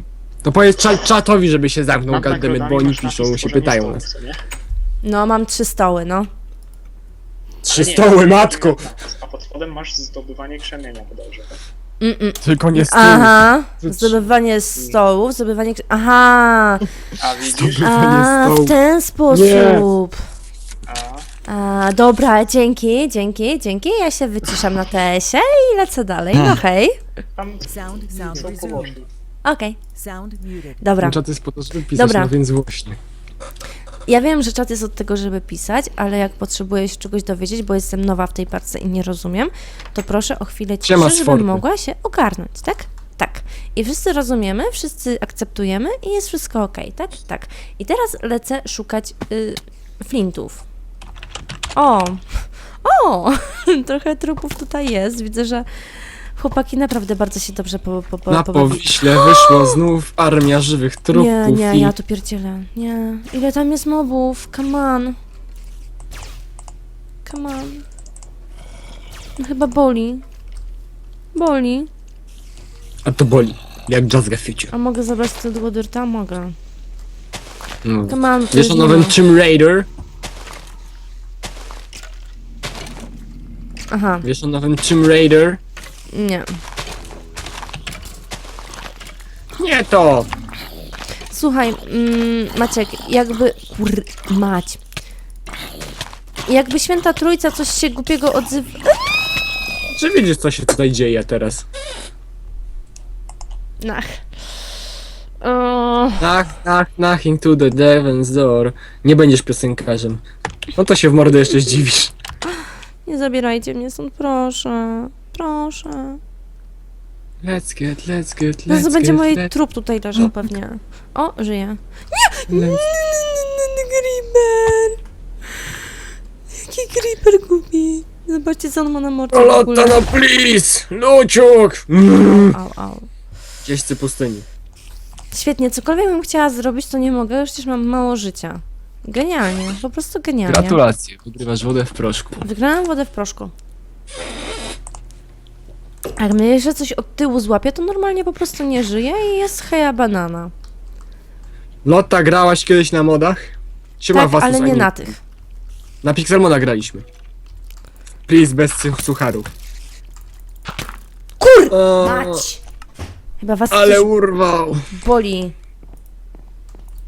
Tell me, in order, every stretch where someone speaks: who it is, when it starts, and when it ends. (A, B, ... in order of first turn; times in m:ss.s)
0:00.4-0:04.0 A
0:02.1-0:04.4 B
0:05.0-0:06.3 C
0:07.6-0:08.8 A
0:07.7-0:11.6 B
0:12.0-0:16.9 C
0:12.4-0:14.2 A
0:17.2-0:17.9 B
0:17.5-0:18.8 A
0:17.8-0:20.2 C
0:19.3-0:19.9 A
0:20.8-0:21.3 B
0:21.5-0:27.0 C
0:27.4-0:29.1 B
0:27.6-0:29.0 D
0:29.4-0:29.8 C
0:29.9-0:30.9 D
0:30.8-0:31.2 C
0:31.0-0:33.0 A
0:31.9-0:32.3 C
0:34.1-0:50.6 C
0:40.8-0:41.6 A
0:51.7-0:59.7 C
0:58.3-1:01.9 A
1:01.1-1:05.2 C
1:07.2-1:07.8 C
1:09.4-1:10.2 C
1:11.3-1:11.9 C
1:13.0-1:14.7 A
1:14.7-1:16.6 C
1:17.8-1:19.9 A
1:18.1-1:19.1 C
1:23.9-1:24.2 C
1:24.2-1:25.6 A
1:26.1-1:26.6 C
1:29.6-1:30.3 A
1:31.3-1:34.8 C
1:36.5-1:39.1 C
1:39.9-1:41.6 A
1:43.8-1:44.2 C
1:45.4-1:46.4 C
1:46.2-1:50.2 A
1:50.8-1:52.1 A
1:52.4-1:56.2 C
1:57.4-1:59.5 A
1:58.7-2:05.0 C
2:02.5-2:02.8 A
2:06.5-2:10.0 C
2:09.3-2:12.6 A
2:12.2-2:13.1 C
2:13.6-2:14.4 A
2:15.3-2:20.8 C
2:20.4-2:22.4 A
2:22.4-2:23.5 C
2:26.2-2:30.5 C
2:31.8-2:35.1 A
2:34.1-2:35.2 C
2:36.0-2:37.0 A
2:38.3-2:39.5 A
2:41.4-2:42.6 C
2:41.7-2:42.5 A
2:43.4-2:44.1 C
2:43.7-2:44.9 A
2:44.9-2:45.5 C